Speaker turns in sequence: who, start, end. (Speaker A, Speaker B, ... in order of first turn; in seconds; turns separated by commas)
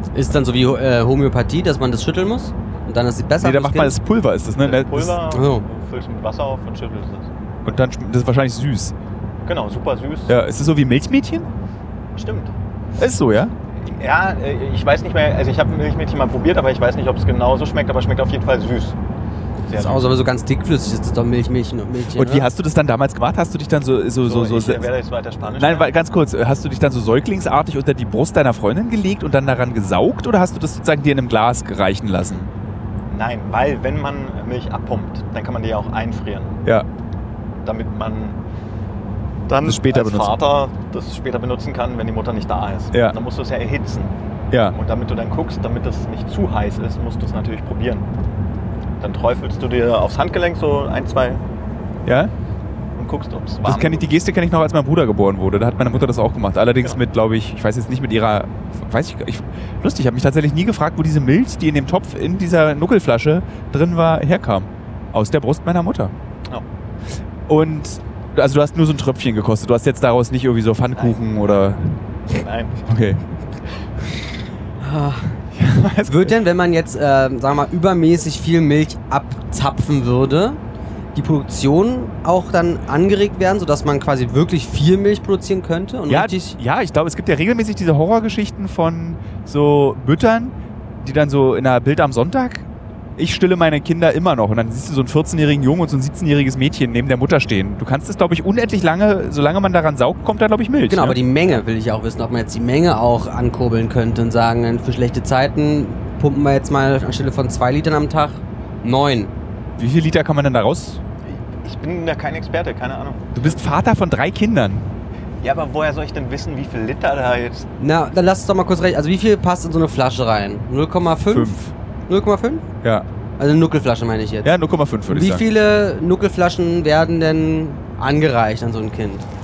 Speaker A: 0.1-4.0, Speaker B: 3.4-5.2, Speaker C: 4.6-7.3, Speaker A: 5.3-5.7, Speaker B: 7.7-8.9, Speaker C: 9.5-10.3, Speaker B: 10.3-11.5, Speaker C: 12.2-12.5, Speaker B: 13.0-13.5, Speaker C: 13.8-19.0, Speaker C: 19.7-20.1, Speaker A: 19.7-22.5, Speaker B: 22.1-24.9, Speaker C: 24.2-25.9, Speaker B: 25.6-32.5, Speaker C: 33.1-36.6, Speaker C: 37.6-38.4, Speaker C: 39.5-44.1, Speaker B: 39.6-40.4, Speaker B: 42.9-43.2, Speaker B: 44.5-44.8, Speaker C: 44.7-48.1, Speaker C: 49.0-51.4, Speaker B: 52.0-52.3, Speaker C: 53.0-54.1, Speaker B: 53.6-66.1, Speaker B: 67.5-71.8, Speaker C: 72.3-72.8, Speaker B: 72.9-73.2, Speaker A: 74.8-75.4, Speaker B: 75.5-76.4, Speaker A: 76.1-80.6, Speaker A: 81.2-86.6, Speaker B: 86.1-101.2, Speaker A: 100.9-109.3, Speaker B: 109.8-111.0, Speaker C: 111.6-113.4, Speaker B: 113.3-114.9, Speaker C: 115.4-117.7, Speaker A: 117.8-121.6, Speaker B: 121.3-121.7, Speaker A: 122.1-122.6, Speaker A: 123.4-124.5, Speaker B: 124.4-125.5, Speaker A: 125.1-129.3